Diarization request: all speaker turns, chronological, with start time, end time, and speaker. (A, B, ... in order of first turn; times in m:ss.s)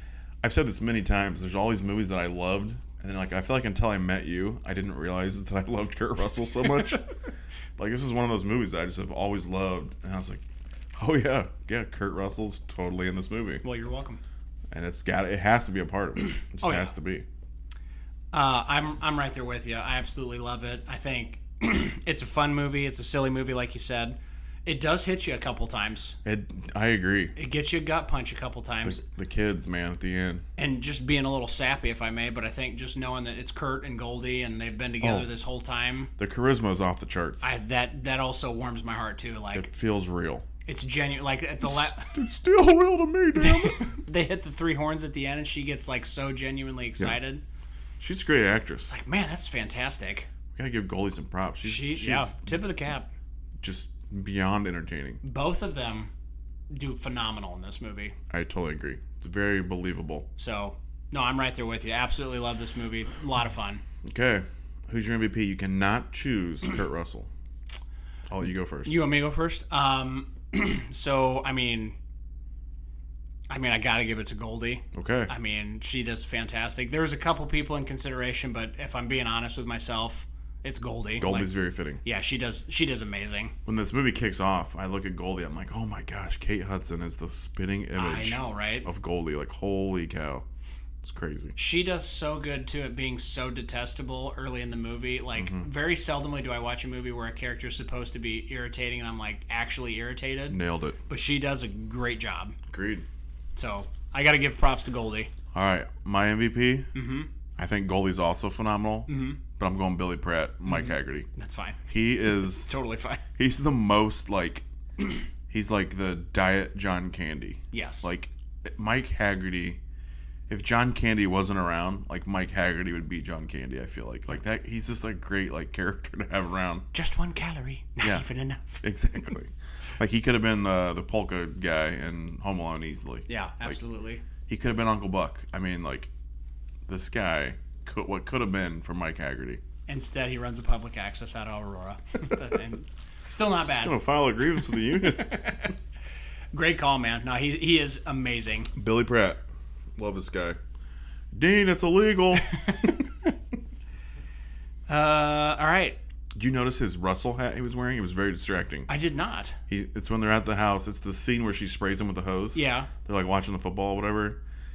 0:00.4-0:07.1 A
0:07.8-0:10.4 A
0:10.9-0:13.6 A
0:13.6-0:14.2 B
0:14.7-0:17.2 A
0:16.6-0:16.9 B
0:18.3-0:26.2 B
0:26.2-0:27.3 A
0:27.4-0:29.0 B
0:28.8-0:30.4 A
0:30.6-0:36.1 B
0:35.0-0:35.3 A
0:36.2-0:37.5 A
0:37.4-0:39.7 B
0:39.5-0:40.4 A
0:40.6-0:42.2 B
0:41.6-0:44.0 A
0:43.4-0:47.4 B
0:48.0-0:48.9 A
0:48.8-0:50.3 B
0:50.5-0:52.6 A
0:51.6-0:53.1 B
0:53.6-0:55.2 A
0:55.2-0:56.1 B
0:56.7-0:58.2 B
0:58.3-1:00.3 A
1:00.4-1:03.8 B
1:04.0-1:07.3 A
1:08.3-1:09.0 A
1:08.8-1:12.0 B
1:13.5-1:21.5 B
1:14.9-1:15.3 A
1:21.2-1:22.0 A
1:22.0-1:23.5 B
1:23.6-1:30.4 A
1:28.0-1:28.9 B
1:31.0-1:31.6 A
1:31.6-1:42.6 B
1:35.4-1:35.7 A
1:40.5-1:41.0 A
1:42.7-1:43.1 A
1:43.6-1:45.3 B
1:45.5-1:46.9 A
1:46.9-1:47.3 B
1:47.6-1:51.3 A
1:49.1-1:49.4 B
1:50.6-1:51.8 B
1:51.9-1:52.7 A
1:52.4-1:53.2 B
1:53.4-1:54.6 A
1:55.5-1:59.8 A
1:57.7-1:58.1 B
2:00.5-2:06.8 A
2:06.9-2:08.8 B
2:08.0-2:08.3 A
2:08.8-2:13.8 A
2:13.3-2:14.2 B
2:14.5-2:16.1 A
2:16.9-2:19.6 A
2:19.9-2:24.0 B
2:23.6-2:25.6 A
2:25.0-2:25.7 B
2:26.5-2:28.7 B
2:28.7-2:29.4 A
2:30.0-2:30.6 A
2:31.3-2:33.0 A
2:32.6-2:32.9 B
2:34.9-2:36.0 B
2:36.3-2:38.9 A
2:38.9-2:39.6 B
2:39.7-2:44.4 A
2:42.5-2:42.9 B